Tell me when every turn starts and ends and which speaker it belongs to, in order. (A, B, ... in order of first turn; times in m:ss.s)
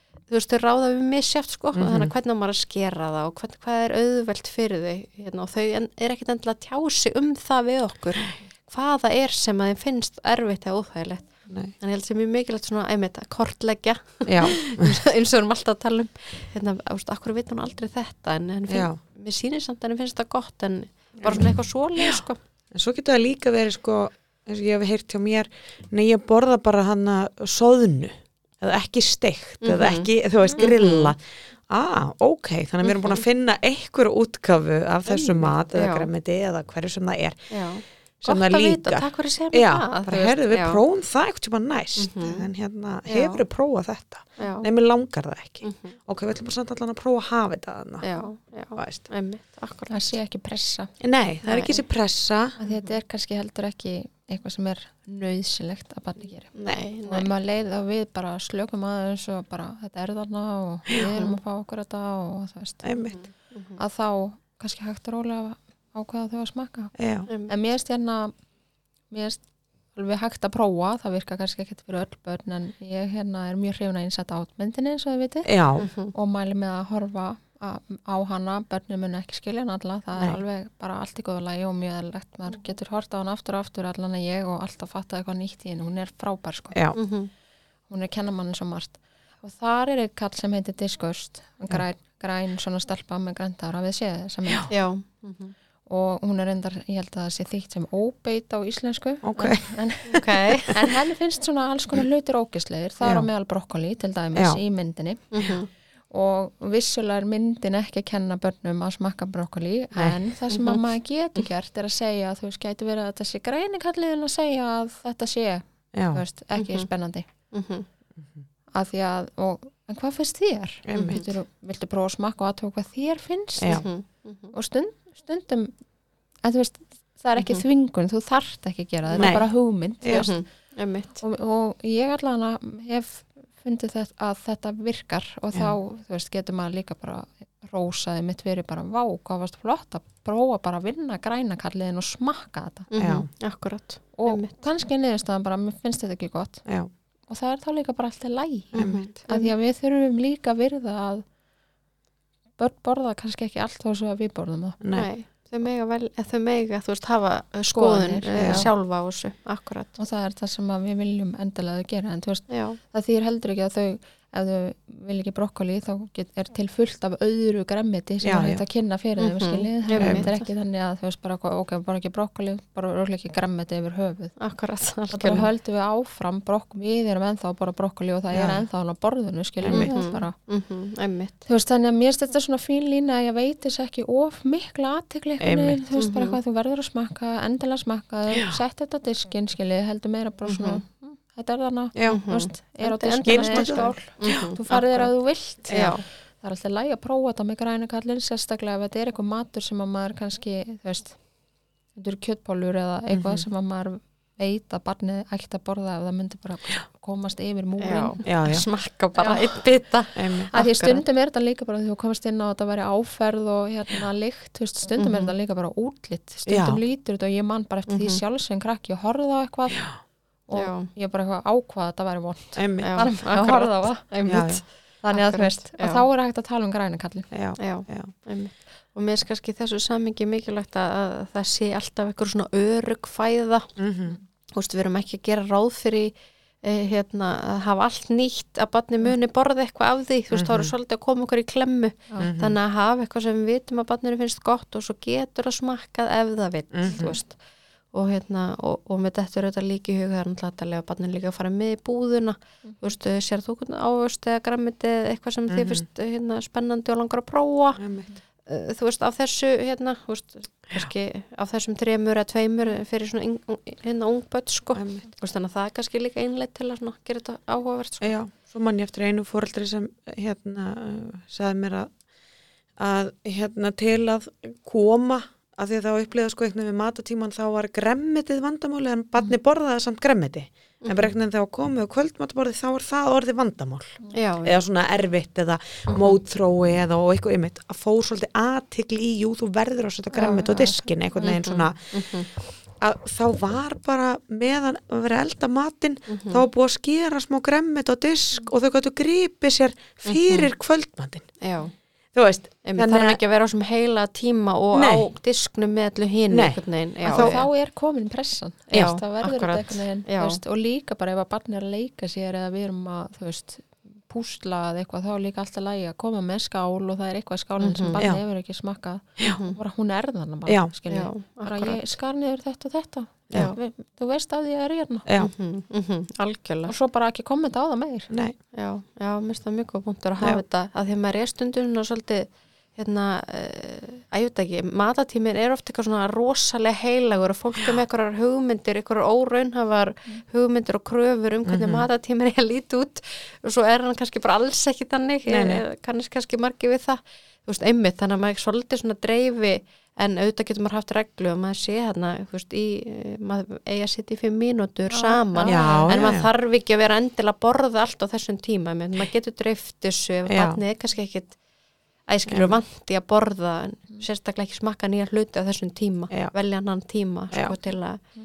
0:00.3-0:22.4 A
0:01.8-0:02.1 B
0:14.2-0:15.0 B
0:18.7-0:19.0 B
0:21.2-0:37.5 B
0:29.6-0:31.1 A
0:32.8-0:33.2 A
0:35.1-0:36.1 A
0:37.5-0:40.8 A
0:38.2-0:48.1 B
0:42.0-0:42.5 A
0:43.1-0:43.4 A
0:44.4-0:44.6 A
0:45.6-0:45.9 A
0:48.0-0:50.1 A
0:48.8-0:49.1 B
0:49.9-0:50.9 C
0:51.0-0:52.6 B
0:51.4-0:51.8 A
0:52.6-1:02.9 C
0:52.7-0:52.9 A
0:56.5-0:57.3 A
1:01.1-1:01.4 A
1:02.8-1:03.2 B
1:03.0-1:03.8 A
1:03.8-1:06.9 C
1:06.9-1:07.3 B
1:07.5-1:08.3 C
1:09.1-1:09.4 C
1:09.9-1:15.5 C
1:15.4-1:15.9 B
1:15.8-1:16.1 A
1:16.1-1:26.8 C
1:26.9-1:27.3 A
1:27.9-1:34.7 C
1:34.7-1:35.5 A
1:35.8-1:45.4 C
1:39.2-1:39.6 B
1:40.1-1:40.9 A
1:43.0-1:43.3 B
1:44.3-1:44.6 B
1:45.3-1:45.7 A
1:46.1-1:57.3 C
1:50.5-1:50.8 A
1:55.9-1:56.2 B
1:56.6-1:56.9 A
1:57.5-1:57.8 A
1:58.7-2:03.9 C
2:00.8-2:01.2 B
2:00.9-2:01.3 A
2:03.6-2:03.8 B
2:03.7-2:04.5 A
2:04.5-2:05.7 C
2:06.4-2:10.4 C
2:07.4-2:07.6 A
2:09.2-2:09.4 B
2:10.0-2:10.3 B
2:10.1-2:11.2 A
2:11.2-2:22.9 C
2:22.9-2:24.5 A
2:23.0-2:23.3 B
2:24.2-2:26.6 C
2:27.3-2:31.2 C
2:28.7-2:29.5 A
2:28.8-2:29.1 B
2:32.6-2:34.8 C
2:34.8-2:35.1 B
2:34.9-2:39.9 A
2:37.7-2:38.7 C
2:38.4-2:38.7 B
2:40.0-2:54.3 C
2:42.5-2:42.8 A
2:48.2-2:48.6 B
2:49.2-2:50.5 A
2:50.0-2:50.2 B
2:54.4-2:55.5 A
2:55.1-3:00.3 C
2:58.3-2:58.6 B
2:59.6-2:59.9 B
2:59.7-3:01.3 A
3:01.4-3:15.9 C
3:05.4-3:05.8 B
3:06.0-3:06.4 A
3:08.3-3:08.6 B
3:10.5-3:10.8 A
3:11.9-3:12.2 B
3:12.1-3:15.1 A
3:13.2-3:14.5 B
3:15.7-3:16.0 A
3:16.4-3:21.2 C
3:22.0-3:28.2 C
3:23.1-3:23.4 B
3:27.8-3:31.0 A
3:28.2-3:28.6 B
3:29.2-3:29.6 C
3:30.2-3:30.5 B
3:30.5-3:39.9 C
3:35.0-3:35.3 A
3:36.5-3:36.8 B
3:37.9-3:38.2 A
3:40.5-3:44.0 C
3:40.5-3:40.9 A
3:42.6-3:43.1 B
3:42.8-3:46.0 A
3:44.2-3:44.6 B
3:45.0-3:47.3 C
3:47.3-3:48.1 B
3:47.6-3:53.7 A
3:53.8-3:54.2 B
3:54.5-4:07.4 A
4:00.3-4:00.7 B
4:02.2-4:02.6 B
4:06.7-4:07.2 B
4:07.9-4:17.8 A
4:15.5-4:15.8 B
4:17.8-4:18.1 B
4:18.5-4:28.2 A
4:24.8-4:25.0 B
4:28.0-4:31.9 B
4:32.8-4:51.9 B
4:40.8-4:41.1 A
4:44.1-4:44.6 A
4:45.9-4:46.2 A
4:50.2-4:50.9 C
4:51.2-4:52.3 A
4:52.8-5:01.3 B
4:56.1-4:56.4 A
5:00.0-5:00.5 A
5:01.4-5:01.7 A
5:02.1-5:03.2 B
5:02.6-5:07.5 A
5:04.7-5:05.1 B
5:06.3-5:07.4 B
5:07.0-5:25.1 C
5:08.7-5:10.4 A
5:17.6-5:18.0 A
5:19.3-5:19.6 A
5:20.9-5:21.9 A
5:23.3-5:23.6 A
5:25.0-5:25.3 B
5:25.2-5:26.7 A
5:26.6-5:28.1 C
5:28.1-5:28.4 B
5:28.5-6:01.4 A
5:41.4-5:41.9 B
5:45.2-5:45.6 B
5:54.9-5:56.1 C
5:55.4-5:56.3 B
6:00.3-6:00.6 B
6:02.1-6:08.0 A
6:02.3-6:02.6 B